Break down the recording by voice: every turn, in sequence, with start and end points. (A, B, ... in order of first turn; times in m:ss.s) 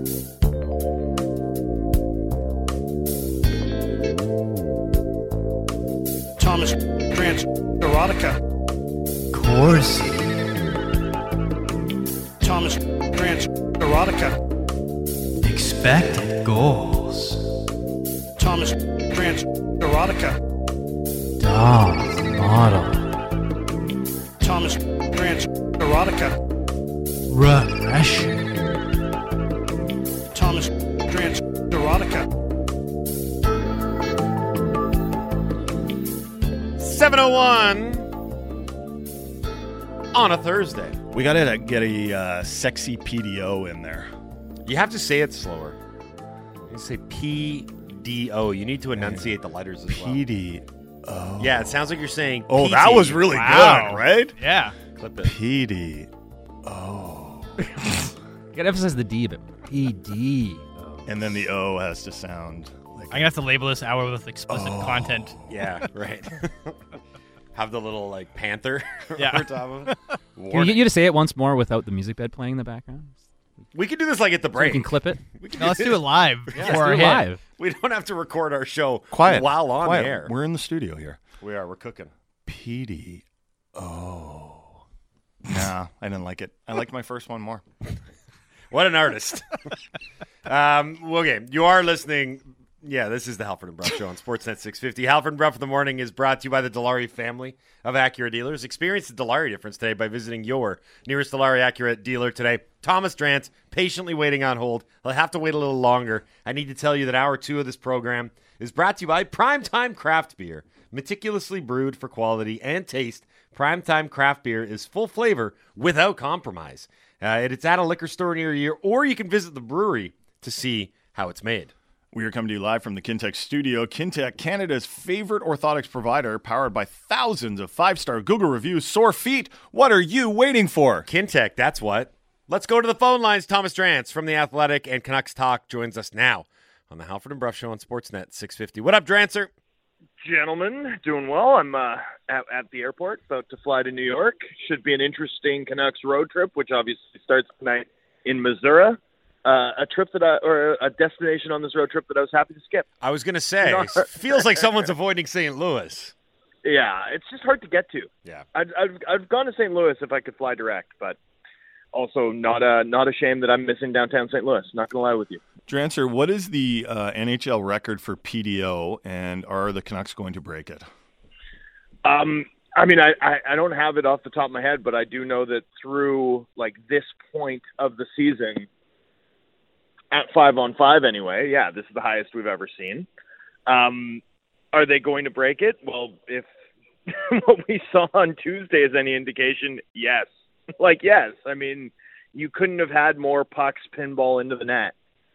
0:06.4-0:08.4 A
0:09.3-0:10.4 B
0:12.4-0:14.4 A
0:15.4-0:17.5 B
0:18.4-0:20.4 A
0:21.4-0:23.1 B
0:24.4-0:26.4 A
0:27.3-0:28.4 B
0:30.3-0:32.3 A
0:36.8-0:38.1 C
0:40.1-0:41.0 C
0:41.1-0:44.1 D
0:44.6-0:45.8 C
0:46.7-0:50.2 C
0:48.9-0:51.8 D
0:51.4-0:53.8 C
0:52.5-0:54.4 D
0:53.5-0:54.7 E
0:55.0-0:55.3 C
0:55.2-0:56.1 D
0:56.6-0:57.6 D
0:58.5-1:01.2 F
1:01.0-1:03.3 D
1:03.1-1:05.5 E
1:04.5-1:05.4 D
1:05.5-1:06.8 C
1:07.5-1:10.9 C
1:09.2-1:09.9 E
1:10.5-1:13.2 F
1:13.7-1:20.3 C
1:14.6-1:15.2 F
1:15.6-1:17.3 E
1:16.6-1:17.4 F
1:19.1-1:21.2 D
1:21.4-1:22.1 C
1:22.4-1:23.2 D
1:23.7-1:24.8 D
1:25.4-1:27.6 D
1:28.7-1:29.8 C
1:30.4-2:01.7 C
2:02.1-2:11.1 D
2:11.0-2:19.5 C
2:20.2-2:32.9 G
2:33.0-2:36.1 C
2:33.6-2:34.6 G
2:36.6-2:41.2 G
2:41.9-2:45.4 G
2:45.7-2:50.8 D
2:52.0-2:58.7 G
3:00.1-3:03.1 G
3:03.7-3:04.2 G
3:04.7-3:06.5 G
3:07.1-3:10.3 G
3:10.8-3:14.9 G